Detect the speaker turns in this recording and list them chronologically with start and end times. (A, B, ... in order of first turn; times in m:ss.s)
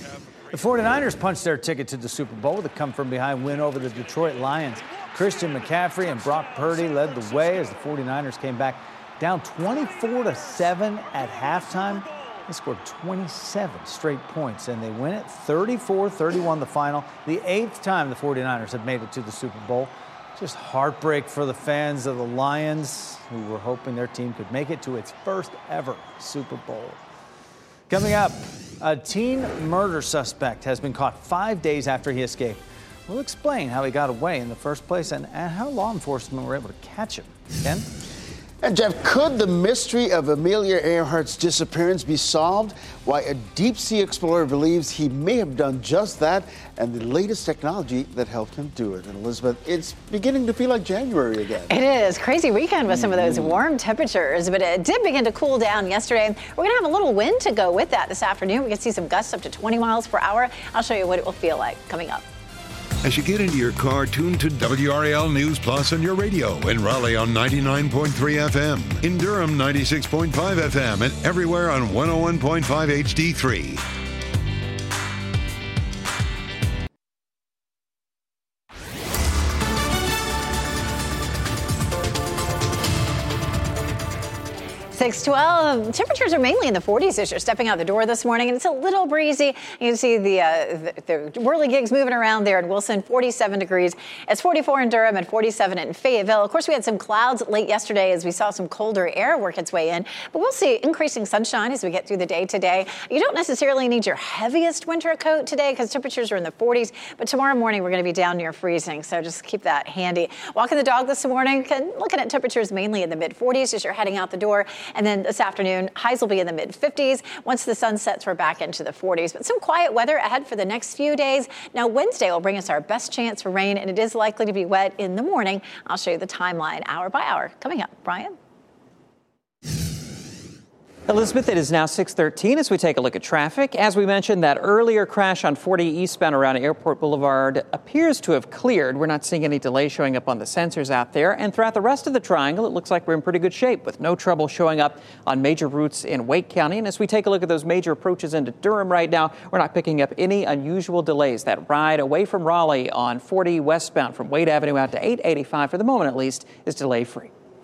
0:00.5-0:27.0 A
0:27.9-0:37.8 A
0:38.6-0:51.8 B
0:51.7-1:02.2 C
0:53.1-0:53.5 B
1:03.0-1:13.8 D
1:24.9-2:08.3 C
2:11.1-2:37.3 E